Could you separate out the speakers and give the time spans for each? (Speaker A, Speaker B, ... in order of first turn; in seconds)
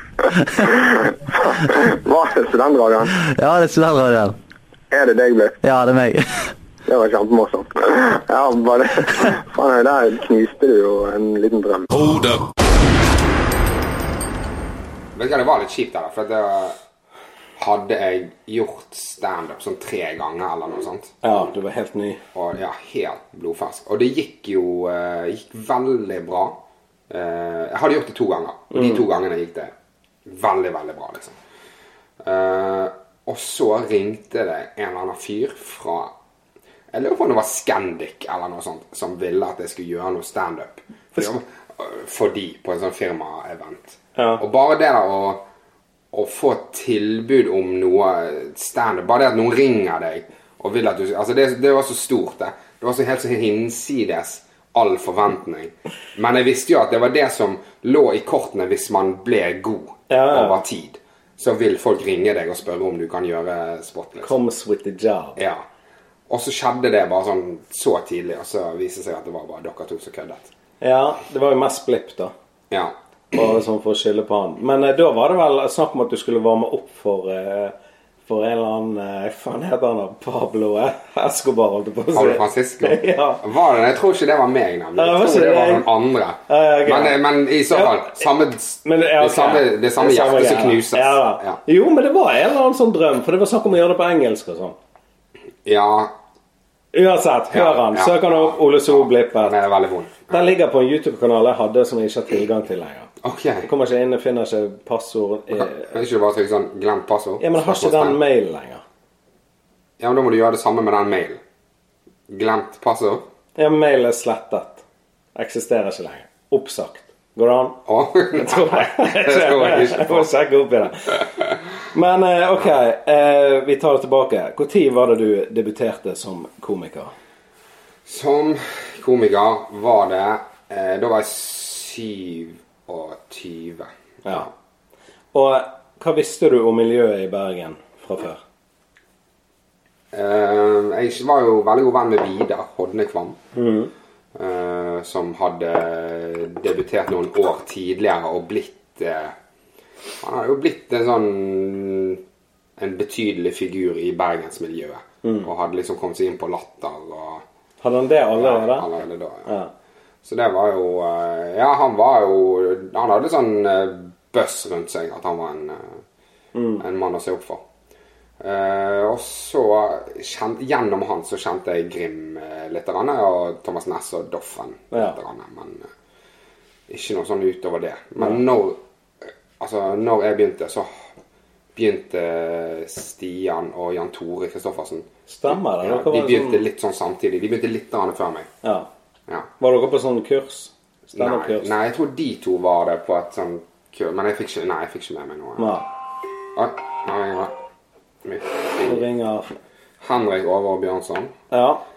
Speaker A: 0.2-0.8, 3.1-4.3, 5.6-6.5
Speaker B: 0.7-3.2, 4.9-5.6, 6.9-11.9
Speaker C: 15.1-16.8, 17.6-21.2, 22.3-26.6, 27.1-29.7, 30.2-31.3, 32.2-36.1, 36.9-45.4, 46.1-64.4, 65.4-65.7, 66.3-70.5, 82.1-91.6, 95.6-96.1, 97.5-100.5, 103.2-103.7, 105.5-108.2, 110.0-111.4, 112.3-113.2, 117.8-120.3, 128.1-134.5, 140.1-143.4, 144.3-149.3, 150.2-152.2, 152.8-157.4, 158.3-159.5, 160.2-166.0, 166.8-167.6, 168.4-175.9, 176.9-180.9, 181.8-188.5, 191.1-195.8, 196.5-197.5, 198.2-199.0, 200.0-201.3
Speaker D: 21.2-22.2, 28.7-29.0, 44.1-44.4, 60.1-60.6, 64.2-65.4, 70.8-72.3, 73.3-77.7, 78.3-83.4, 85.0-85.9, 86.5-87.2, 87.7-88.2, 88.8-94.8, 96.9-99.5, 100.3-103.1, 103.6-105.9, 107.4-108.8, 113.6-114.8, 115.3-117.8, 118.3-121.2, 121.9-127.1, 135.3-138.4, 143.5-143.9, 155.2-155.5, 157.8-158.8, 159.5-159.7, 166.5-166.8, 185.3-186.6, 188.6-188.9, 189.6-191.7, 195.6-195.9, 198.8-199.6, 201.5-201.8